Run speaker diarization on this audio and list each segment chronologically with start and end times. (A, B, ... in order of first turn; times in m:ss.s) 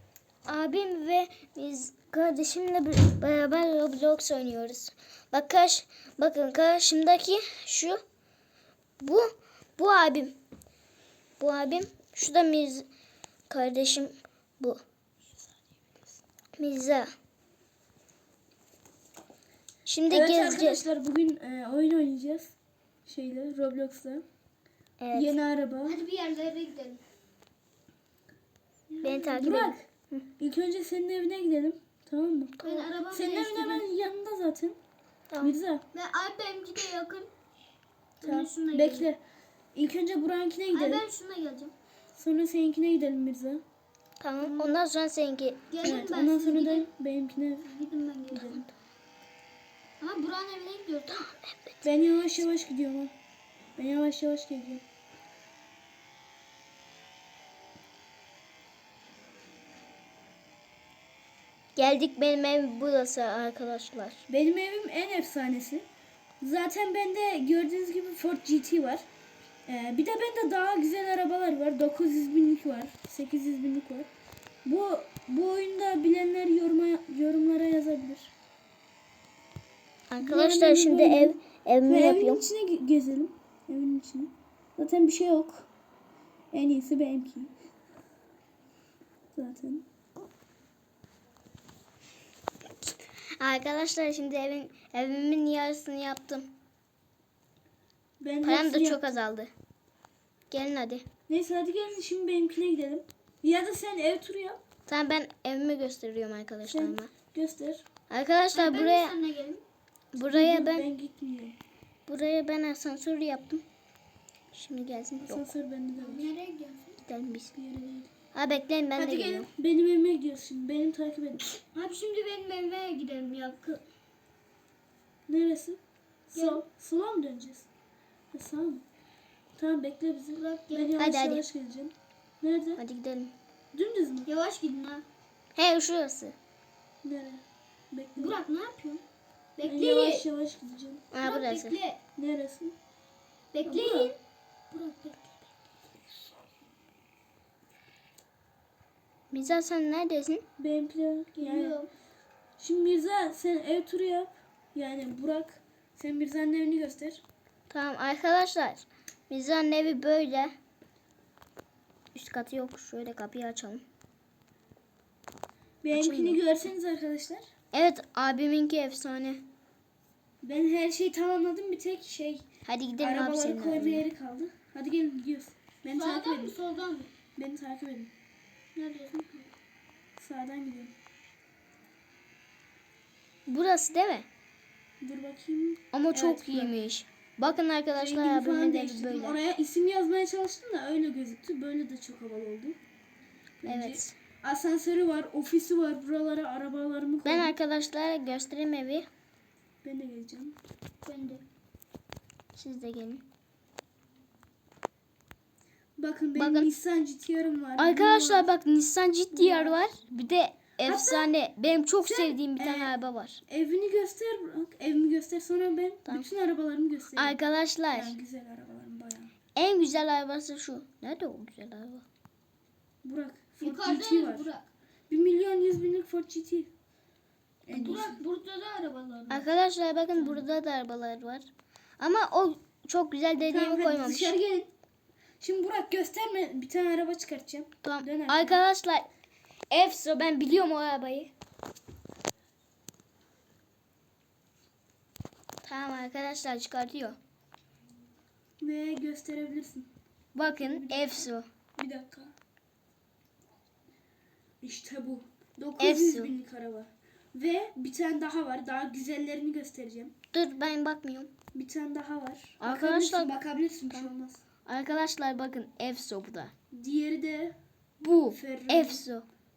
0:00.4-0:08.0 A
0:09.0-0:10.4 A
0:11.4-0:12.9 A
0:13.5-0:14.8 A
0:16.6-0:17.1 A
0:19.8-0:20.8 A
0:20.1-0:22.5 B
0:23.0-0:24.2 B
0:25.0-0:25.4 A
0:25.1-0:26.0 B
0:25.9-0:27.0 C
0:29.0-0:32.6 B
0:29.0-0:30.2 A
0:32.6-0:33.9 C
0:33.1-0:34.8 B
0:35.4-0:35.8 B
0:35.9-0:37.3 C
0:38.2-0:39.1 C
0:38.2-0:39.2 B
0:39.7-0:41.0 B
0:40.7-0:41.7 C
0:42.1-0:43.6 B
0:44.2-0:45.7 A
0:45.7-0:46.9 C
0:45.8-0:47.7 B
0:47.6-0:48.6 C
0:48.3-0:48.6 B
0:50.0-0:51.3 C
0:51.1-0:51.8 A
0:51.8-0:53.1 B
0:53.8-0:54.8 B
1:01.8-1:04.2 A
1:04.3-1:05.8 B
1:06.4-1:09.0 B
1:09.6-1:14.1 B
1:14.6-1:18.3 B
1:20.1-1:22.4 A
1:20.2-1:25.7 B
1:26.5-1:27.5 B
1:29.3-1:29.8 B
1:33.4-1:36.5 A
1:38.2-1:39.2 B
1:38.4-1:39.5 A
1:40.5-1:41.0 A
1:41.3-1:44.6 B
1:44.9-1:47.1 A
1:46.6-1:47.8 B
1:48.1-1:49.2 A
1:48.5-1:49.6 C
1:50.1-1:50.8 A
1:50.2-1:51.6 B
1:52.1-1:53.6 A
1:54.5-1:55.4 A
1:55.2-1:56.3 B
1:56.0-1:57.0 C
1:57.0-1:57.5 A
1:57.5-1:58.1 B
1:58.3-1:59.5 A
1:59.0-1:59.5 C
1:59.5-2:01.5 B
2:01.7-2:03.8 C
2:05.3-2:07.7 B
2:06.3-2:06.6 C
2:08.3-2:08.8 B
2:09.6-2:12.8 B
2:10.3-2:11.0 C
2:11.0-2:11.4 A
2:12.8-2:13.3 A
2:13.7-2:14.3 B
2:14.2-2:15.0 C
2:15.6-2:16.3 A
2:17.0-2:18.4 B
2:18.2-2:19.0 C
2:19.6-2:20.2 C
2:19.6-2:21.1 B
2:21.1-2:21.8 A
2:21.2-2:22.0 C
2:22.2-2:22.7 B
2:23.5-2:24.2 C
2:23.6-2:24.1 B
2:24.7-2:25.3 C
2:29.3-2:30.4 A
2:30.6-2:31.8 B
2:31.3-2:31.9 C
2:32.6-2:37.2 B
2:37.7-2:40.5 A
2:42.1-2:43.8 A
2:45.8-2:47.4 B
2:45.9-2:46.4 A
2:47.7-2:49.4 A
2:50.4-2:52.4 B
2:52.6-2:54.0 A
2:53.0-2:56.6 B
2:55.9-2:57.1 C
2:57.4-2:58.1 B
2:58.7-2:59.5 C
3:00.2-3:00.9 B
3:03.5-3:04.3 A
3:05.0-3:06.8 B
3:05.9-3:09.4 A
3:08.0-3:12.8 B
3:13.6-3:17.5 B
3:13.6-3:14.1 A
3:17.2-3:19.1 A
3:19.8-3:20.6 B
3:21.0-3:21.4 C
3:22.5-3:23.2 A
3:26.0-3:28.5 B
3:26.3-3:26.7 A
3:27.8-3:33.4 A
3:29.3-3:29.8 B
3:30.8-3:31.3 B
3:32.0-3:32.9 B
3:33.5-3:37.4 B
3:37.2-3:38.2 A
3:37.9-3:39.3 B
3:39.6-3:42.0 A
3:43.0-3:44.5 B
3:43.6-3:44.7 C
3:45.1-3:46.7 B
3:47.6-3:48.2 B
3:47.7-3:49.5 C
3:49.3-3:51.5 A
3:50.2-3:50.4 B
3:52.0-3:54.4 A
3:53.5-3:54.7 B
3:55.4-3:58.6 B
3:57.8-3:59.1 A
3:59.7-4:01.3 A
4:05.6-4:07.2 A
4:08.6-4:09.9 B
4:10.3-4:11.4 A
4:10.6-4:12.3 B
4:14.6-4:20.1 B
4:15.8-4:16.3 A
4:20.3-4:21.3 A
4:21.5-4:24.4 B
4:22.6-4:23.4 A
4:24.6-4:26.5 A
4:26.7-4:27.6 B
4:28.0-4:29.2 A
4:28.3-4:29.0 B